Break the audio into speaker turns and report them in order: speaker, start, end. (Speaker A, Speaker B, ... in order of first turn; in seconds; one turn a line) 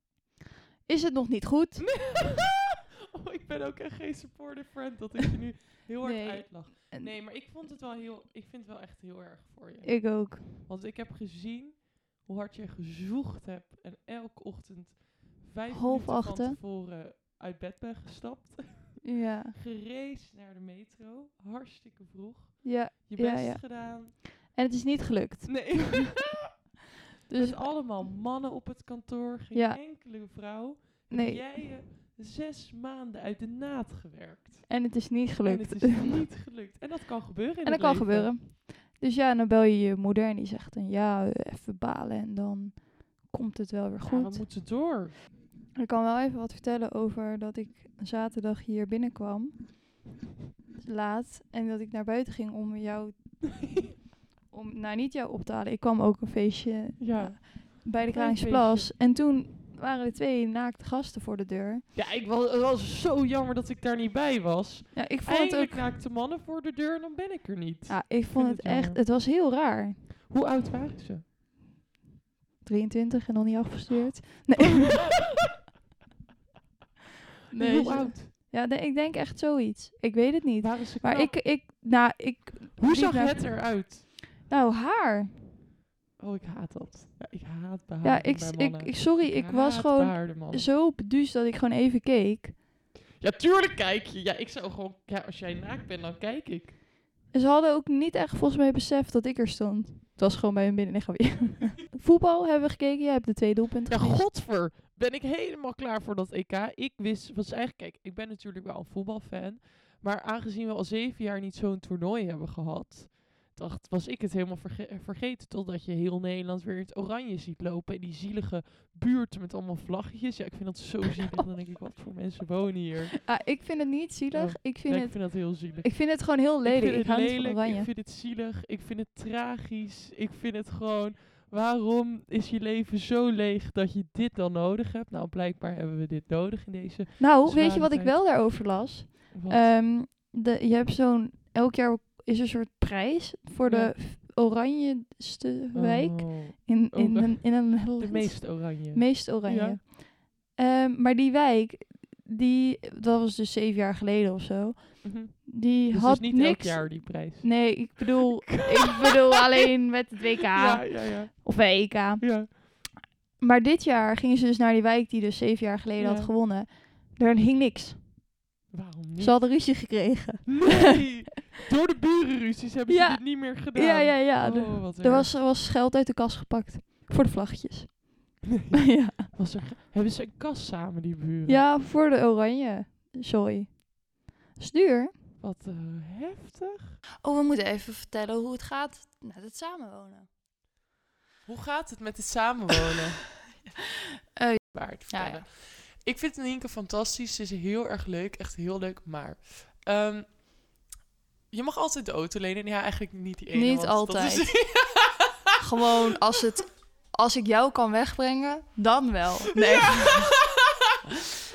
Speaker A: 0.8-1.8
Speaker B: 1.8-24.1
Speaker A: 6.0-7.1
Speaker A: 9.8-10.5
Speaker A: 15.7-16.6
Speaker A: 19.0-19.6
Speaker A: 22.6-25.9
Speaker B: 25.4-26.5
Speaker B: 27.3-34.8
Speaker A: 27.3-27.6
Speaker A: 29.5-29.8
Speaker A: 31.1-31.6
Speaker A: 34.7-36.2
Speaker B: 35.4-38.3
Speaker A: 37.6-44.4
Speaker B: 44.0-45.1
Speaker A: 45.8-50.0
Speaker A: 50.8-53.5
Speaker A: 54.5-61.8
Speaker B: 57.0-58.9
Speaker B: 61.9-69.0
Speaker A: 64.9-65.9
Speaker A: 67.9-70.1
Speaker B: 70.3-71.2
Speaker A: 72.6-75.0
Speaker B: 74.8-75.2
Speaker A: 77.5-83.7
Speaker B: 77.5-78.3
Speaker B: 80.6-81.4
Speaker B: 82.8-84.0
Speaker A: 84.5-85.5
Speaker B: 86.2-90.7
Speaker A: 88.0-92.6
Speaker B: 93.2-96.7
Speaker A: 97.3-104.2
Speaker B: 103.9-123.2
Speaker A: 123.2-127.9
Speaker B: 124.3-126.0
Speaker B: 126.6-138.3
Speaker A: 137.2-162.4
Speaker B: 139.3-139.7
Speaker B: 143.6-143.9
Speaker B: 145.7-149.8
Speaker B: 155.0-157.9
Speaker B: 158.4-159.4
Speaker B: 160.5-162.5
Speaker A: 163.4-168.2
Speaker B: 166.0-166.3
Speaker B: 168.7-169.4
Speaker A: 169.2-171.0
Speaker B: 170.4-175.3
Speaker A: 172.9-179.3
Speaker B: 179.2-181.6
Speaker A: 181.4-185.1
Speaker B: 185.4-186.9
Speaker C: 187.2-190.2
Speaker B: 191.4-193.3
Speaker C: 194.3-195.4
Speaker B: 194.7-200.4
Speaker B: 201.5-205.3
Speaker A: 203.6-204.4
Speaker A: 205.6-206.1
Speaker C: 206.2-206.6
Speaker A: 207.2-209.0
Speaker C: 207.2-210.3
Speaker B: 209.6-210.7